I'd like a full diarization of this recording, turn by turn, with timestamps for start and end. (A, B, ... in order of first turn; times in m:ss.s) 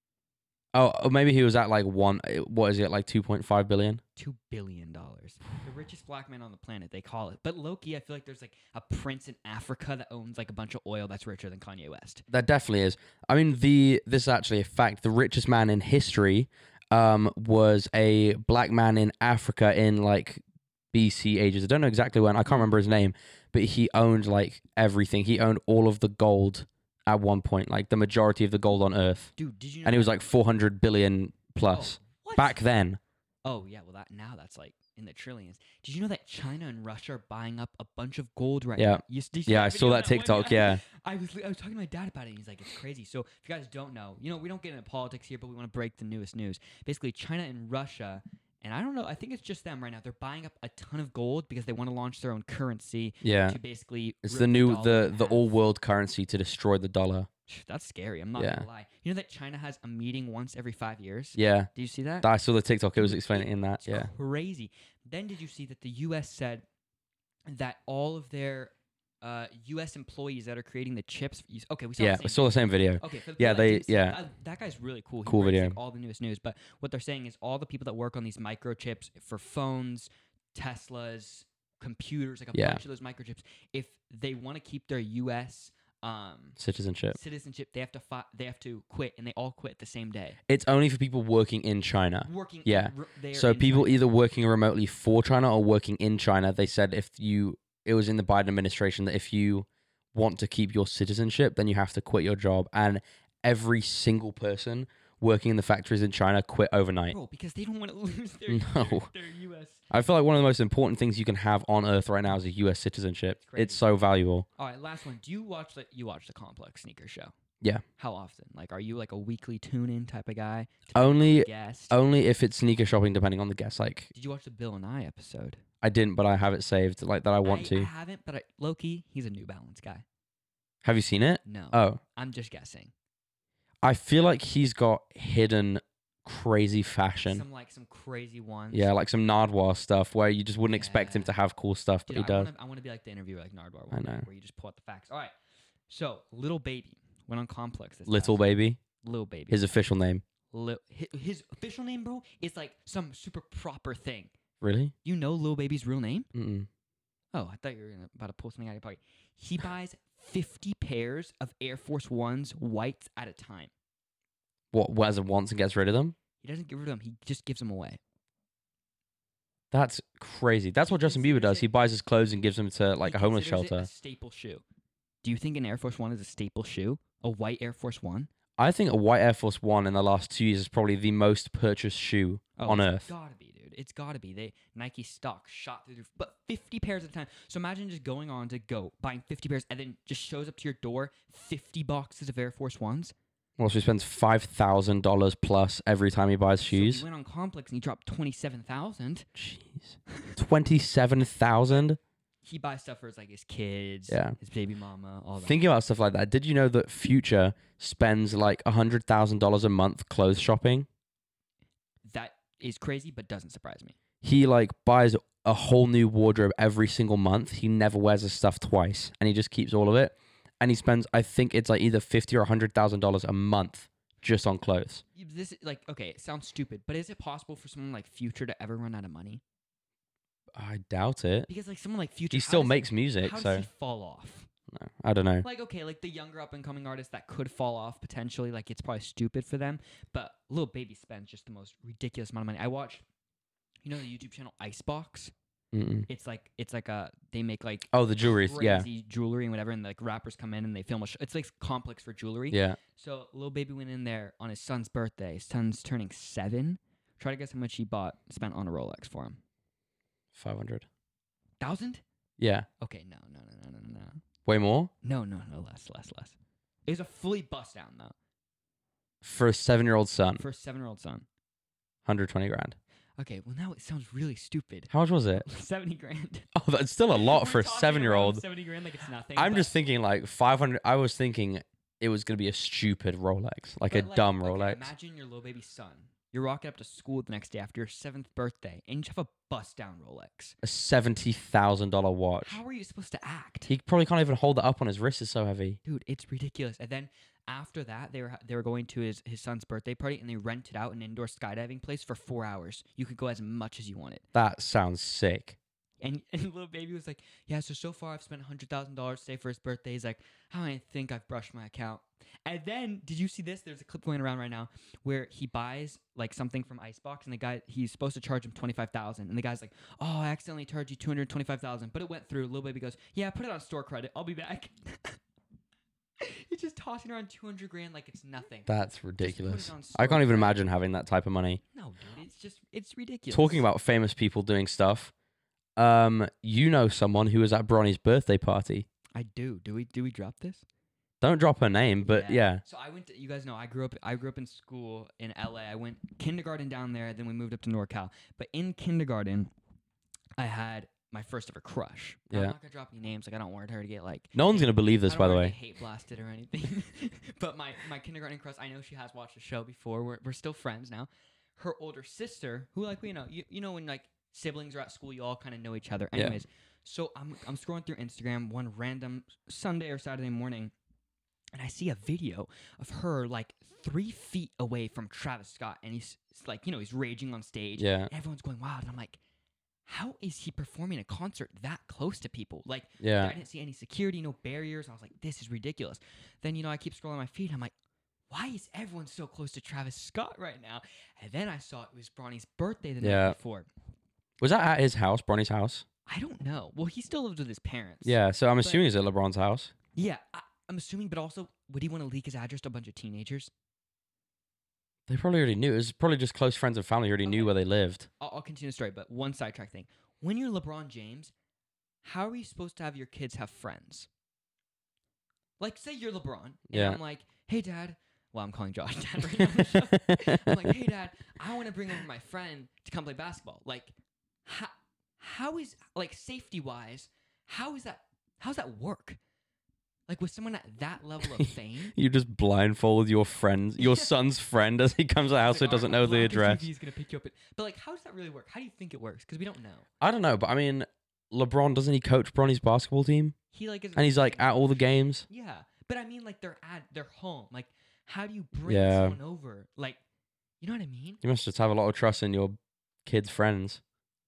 0:00.7-0:04.0 A
0:04.2-0:12.3 B
0:12.3-0:20.4 A
0:20.9-0:29.3 A
0:29.4-0:30.2 B
0:29.8-0:33.0 A
0:31.6-0:32.6 B
0:33.4-0:55.6 B
0:38.8-0:40.8 A
0:53.2-0:53.6 A
0:54.2-0:57.3 A
0:57.5-1:02.3 B
0:58.4-0:58.6 A
1:01.4-1:01.7 A
1:02.2-1:04.1 A
1:03.0-1:06.6 B
1:07.5-1:26.6 B
1:12.0-1:14.2 A
1:15.3-1:15.8 A
1:22.5-1:22.8 A
1:26.6-1:27.2 A
1:27.1-1:30.4 B
1:30.5-1:47.2 A
1:32.2-1:34.1 B
1:47.1-1:49.8 B
1:48.5-1:49.1 A
1:49.9-1:54.5 A
1:53.4-1:53.9 B
1:54.6-1:57.3 B
1:58.0-2:02.0 B
2:00.9-2:04.1 A
2:04.1-2:05.6 B
2:05.8-2:07.9 A
2:07.4-2:10.0 B
2:10.8-2:12.0 A
2:11.4-2:12.9 B
2:13.8-2:17.4 A
2:17.2-2:18.9 B
2:18.7-2:22.5 A
2:20.7-2:21.3 B
2:22.1-2:25.3 B
2:23.9-2:24.3 A
2:25.9-2:28.4 B
2:28.1-2:28.8 A
2:29.0-2:29.7 B
2:29.5-2:30.2 A
2:30.5-2:34.3 B
2:34.6-2:34.9 A
2:35.0-2:36.3 B
2:36.3-2:36.7 A
2:37.3-2:43.7 B
2:44.7-2:46.2 A
2:46.4-2:48.0 B
2:49.7-2:53.9 A
2:50.8-2:51.7 B
2:53.0-2:54.6 B
2:55.2-2:58.3 B
2:58.6-3:03.1 A
3:02.6-3:13.1 B
3:13.6-3:17.0 A
3:16.7-3:19.3 B
3:19.4-3:22.0 A
3:22.4-3:25.6 B
3:24.1-3:24.4 A
3:25.4-3:30.9 A
3:32.0-3:34.0 B
3:34.2-3:45.0 A
3:45.2-3:49.4 B
3:50.6-3:51.5 A
3:51.5-3:54.5 B
3:52.3-3:53.7 A
3:54.7-3:55.5 A
3:55.4-4:03.0 B
4:03.8-4:05.3 B
4:05.7-4:06.1 A
4:06.1-4:19.4 B
4:07.9-4:08.9 A
4:12.5-4:12.8 A
4:20.3-4:20.9 A
4:21.6-4:22.0 B
4:22.4-4:22.7 A
4:22.8-4:24.2 B
4:24.4-4:24.9 A
4:25.0-4:28.2 B
4:29.2-4:30.4 A
4:30.4-4:31.3 B
4:32.1-4:32.8 A
4:33.2-4:36.5 B
4:34.9-4:35.4 A
4:36.5-4:38.4 A
4:37.1-4:39.8 B
4:39.4-4:44.9 A
4:43.9-4:50.6 B
4:50.6-4:52.6 A
4:52.4-4:53.7 B
4:53.7-4:55.8 A
4:55.8-5:04.2 B
5:04.3-5:05.6 A
5:06.0-5:25.2 B
5:26.2-5:30.6 B
5:28.7-5:31.6 A
5:31.7-5:33.6 B
5:33.3-5:35.1 A
5:35.8-5:38.9 A
5:39.1-5:40.6 B
5:41.2-5:42.6 A
5:42.0-5:49.5 B
5:50.4-6:10.7 B
5:54.4-5:55.6 A
6:06.2-6:06.4 A
6:11.5-6:19.2 B
6:17.8-6:18.1 A
6:19.9-6:27.7 B
6:23.0-6:23.4 A
6:28.3-6:33.7 B
6:33.0-6:33.4 A
6:34.4-6:35.8 A
6:36.1-6:38.9 B
6:38.0-6:39.7 A
6:39.9-6:43.5 B
6:45.1-6:48.1 A
6:47.2-6:47.5 B
6:48.2-6:51.3 B
6:52.0-6:54.1 B
6:55.6-7:09.2 B
6:56.7-6:57.0 A
6:59.8-7:00.7 A
7:10.1-7:11.9 B
7:11.4-7:16.6 A
7:13.8-7:14.1 B
7:15.4-7:19.9 B
7:20.0-7:23.4 A
7:23.5-7:30.0 B
7:24.0-7:25.3 A
7:28.7-7:29.2 A
7:30.6-7:31.2 B
7:31.2-7:33.8 A